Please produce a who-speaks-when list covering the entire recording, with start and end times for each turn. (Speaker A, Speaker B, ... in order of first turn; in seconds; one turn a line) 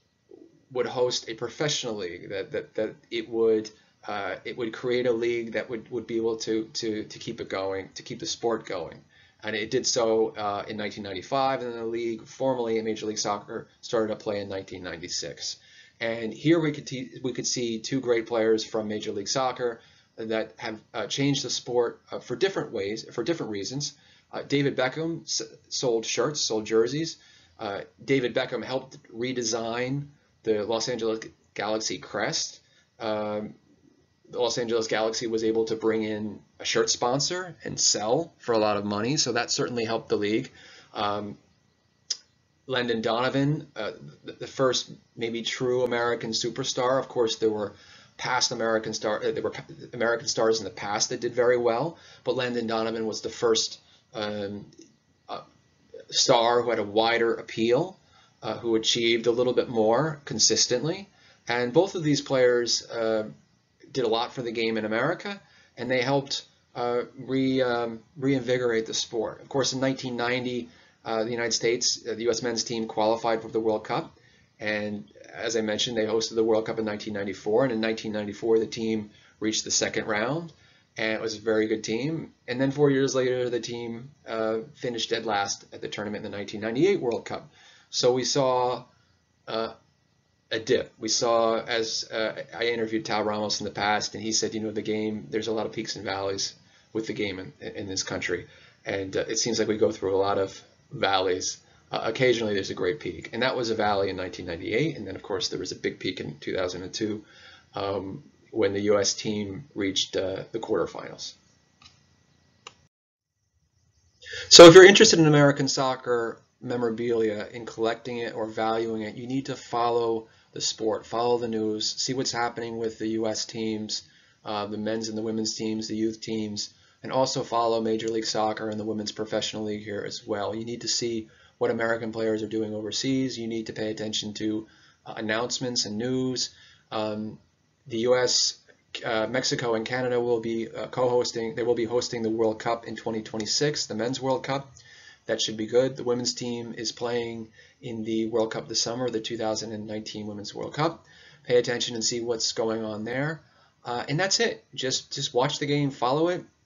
Speaker A: 0.7-33.5
Speaker A: 34.3-41.4
Speaker A: 42.7-54.7
Speaker A: 56.1-63.3
Speaker A: 63.9-88.9
Speaker A: 89.5-89.8
Speaker A: 90.5-111.4
Speaker A: 114.5-144.7
Speaker A: 145.3-156.4